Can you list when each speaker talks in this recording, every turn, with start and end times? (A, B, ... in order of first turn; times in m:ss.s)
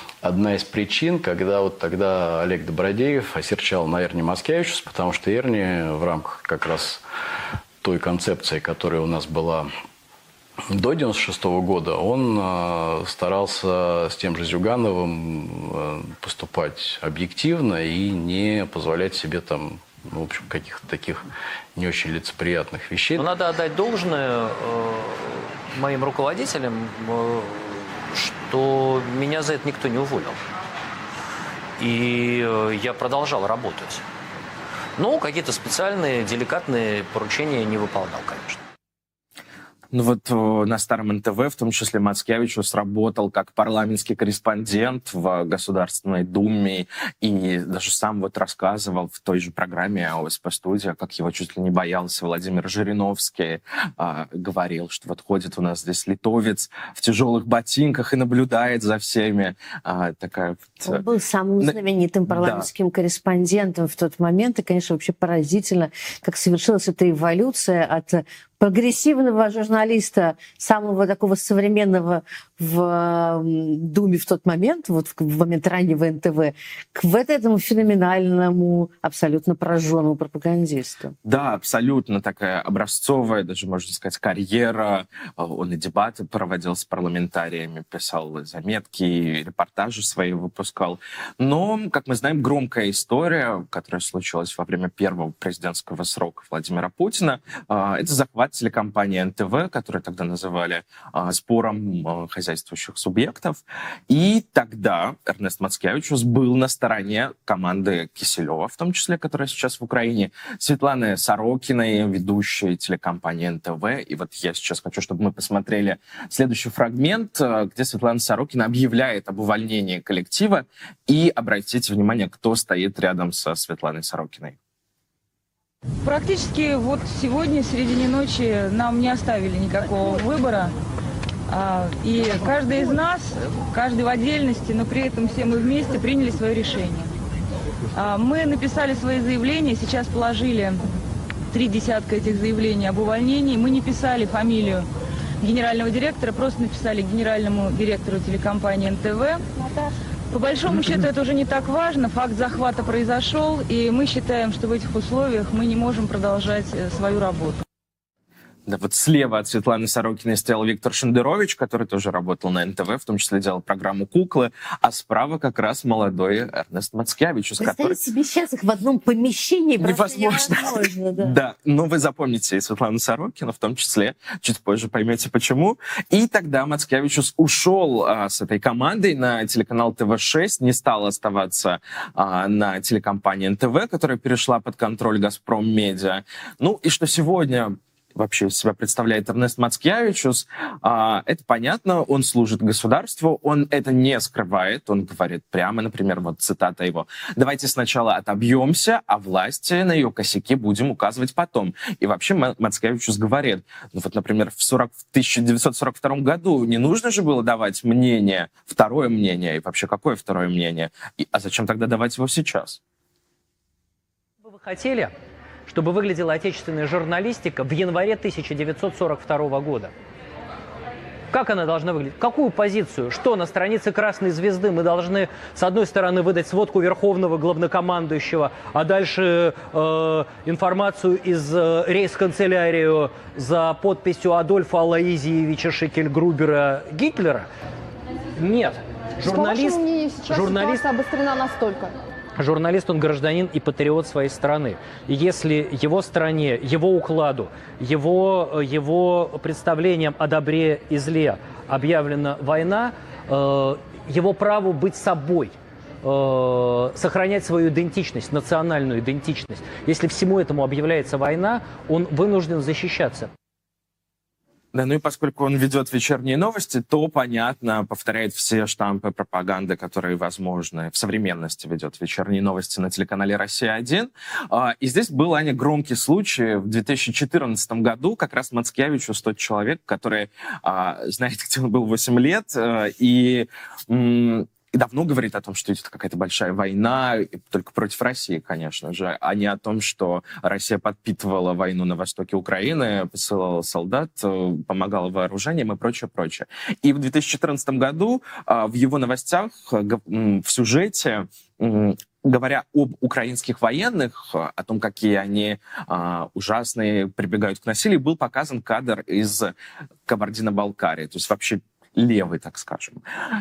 0:00.2-0:07.0 A
0:07.8-0:09.7 A
0:10.7-0:21.2 A
0:21.8-0:23.3 A
0:23.2-0:30.4 B
0:31.8-0:34.0 B
0:35.0-0:38.6 B
0:39.9-1:01.0 C
1:00.8-1:21.2 D
1:02.3-1:02.7 C
1:21.2-2:04.6 C
2:06.0-2:10.8 E
2:11.5-2:17.1 E
2:17.9-2:20.8 E
2:21.5-2:24.9 E
2:25.4-2:29.4 E
2:30.3-2:37.6 E
2:38.7-2:48.0 C
2:47.6-2:51.3 D
2:49.8-3:32.8 C
3:34.4-3:35.1 F
3:35.7-3:39.9 F
3:41.3-3:57.5 F
3:58.4-4:00.8 F
3:59.2-4:01.9 G
4:02.4-4:23.3 F
4:24.7-5:09.5 C
5:10.1-5:13.0 C